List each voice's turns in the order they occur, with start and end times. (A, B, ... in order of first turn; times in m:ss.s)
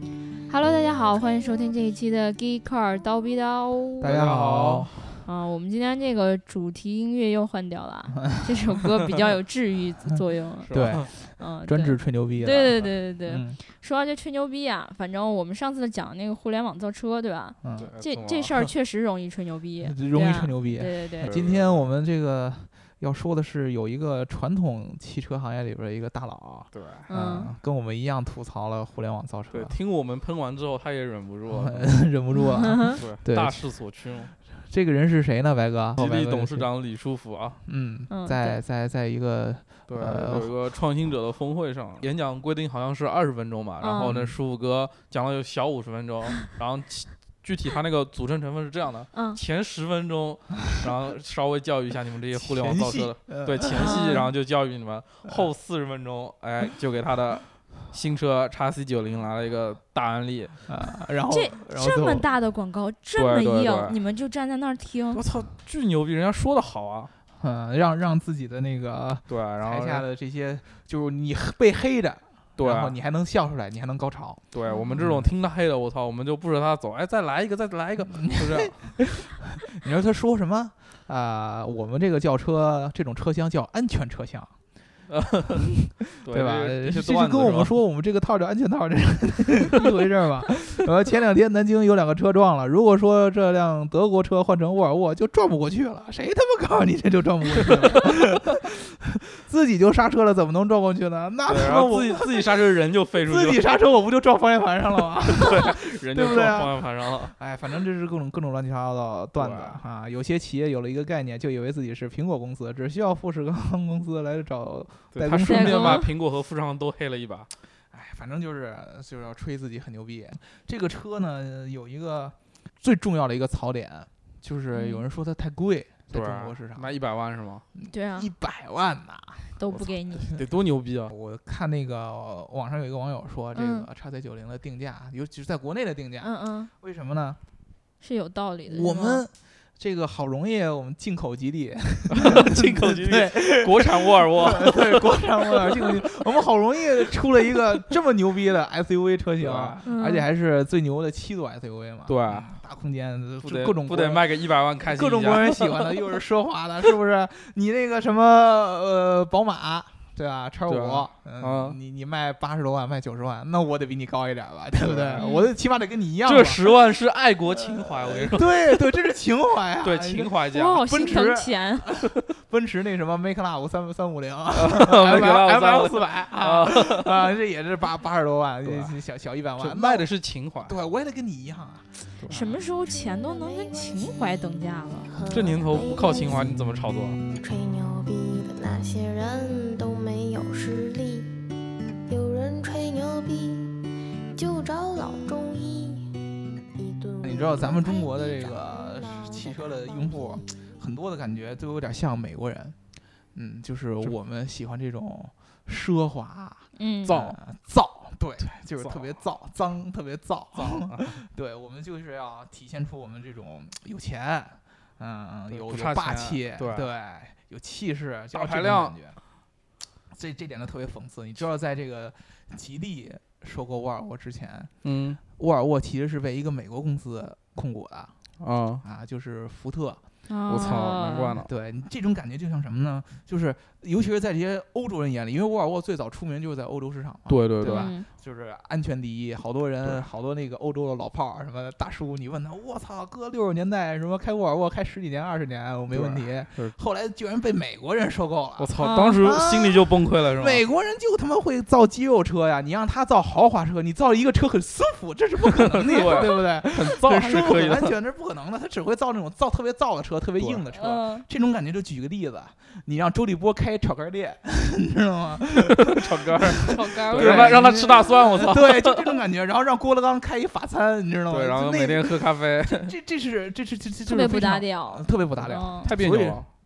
0:00.5-0:04.1 A
0:04.0-0:04.9 B
0:04.0-0:05.2 C
0:05.2-0:21.4 A
0:10.7-0:11.1 C
0:10.7-0:13.6 B
0:17.6-0:17.9 B
0:17.8-0:18.7 C
0:19.8-0:29.8 B
0:21.2-0:21.9 C
0:26.7-0:27.0 C
0:27.1-0:27.5 A
0:29.5-0:32.0 C
0:31.5-0:33.7 B
0:33.0-0:34.3 C
0:34.5-0:36.7 B
0:36.0-0:37.6 C
0:37.6-0:40.6 B
0:38.1-0:38.6 A
0:39.9-1:00.6 C
0:43.8-0:44.2 A
0:44.0-0:44.4 B
0:49.1-0:49.4 A
0:52.3-0:54.0 B
0:53.8-0:54.3 A
1:00.7-1:02.3 B
1:01.3-1:05.2 A
1:03.2-1:04.0 C
1:05.1-1:07.1 C
1:07.4-1:14.4 B
1:09.3-1:10.1 C
1:12.6-1:13.0 C
1:14.5-1:19.0 C
1:14.7-1:15.0 A
1:15.0-1:15.3 B
1:18.1-1:24.5 B
1:25.1-1:27.8 C
1:25.8-1:42.6 B
1:41.5-1:43.6 C
1:43.2-1:56.0 B
1:45.2-1:47.4 C
1:49.4-1:49.8 C
1:55.1-1:57.5 C
1:55.5-1:56.1 A
1:57.9-2:07.0 B
2:04.7-2:05.0 A
2:06.1-2:07.6 C
2:07.8-2:10.5 B
2:07.9-2:08.3 A
2:09.6-2:10.4 A
2:10.3-2:11.1 C
2:11.1-2:17.4 B
2:13.5-2:13.9 A
2:16.2-2:16.7 A
2:18.0-2:19.2 A
2:18.7-2:46.8 B
2:22.1-2:25.9 C
2:29.4-2:29.8 C
2:29.8-2:30.3 A
2:32.1-2:32.6 C
2:33.4-2:36.1 C
2:40.7-2:41.8 C
2:44.8-2:45.3 C
2:45.2-2:45.5 A
2:46.2-2:48.6 C
2:47.9-3:00.1 B
2:49.8-2:50.8 C
2:50.5-2:51.9 A
2:54.5-2:57.3 C
2:58.6-2:59.0 C
2:59.6-3:00.8 C
3:00.6-3:02.1 B
3:02.2-3:02.5 C
3:02.3-3:05.1 A
3:02.8-3:11.4 D
3:05.3-3:07.2 C
3:12.1-3:20.7 D
3:17.2-3:22.8 B
3:23.4-3:39.2 B
3:26.8-3:27.3 A
3:28.4-3:29.2 C
3:30.6-3:31.1 C
3:35.5-3:36.9 C
3:38.3-3:39.0 C
3:40.1-3:44.7 B
3:44.8-3:45.2 C
3:45.2-3:48.1 B
3:48.4-3:48.8 C
3:48.8-3:50.0 B
3:50.3-3:51.4 A
3:50.5-3:51.5 C
3:50.6-4:26.4 B
3:57.3-3:57.9 C
3:57.7-3:58.1 A
4:05.9-4:06.8 C
4:08.6-4:10.6 C
4:08.8-4:09.4 A
4:15.9-4:17.9 C
4:20.7-4:21.3 A
4:25.9-4:29.2 C
4:26.7-4:27.7 A
4:27.0-4:36.5 B
4:31.3-4:32.9 C
4:34.0-4:35.9 A
4:35.8-4:36.5 C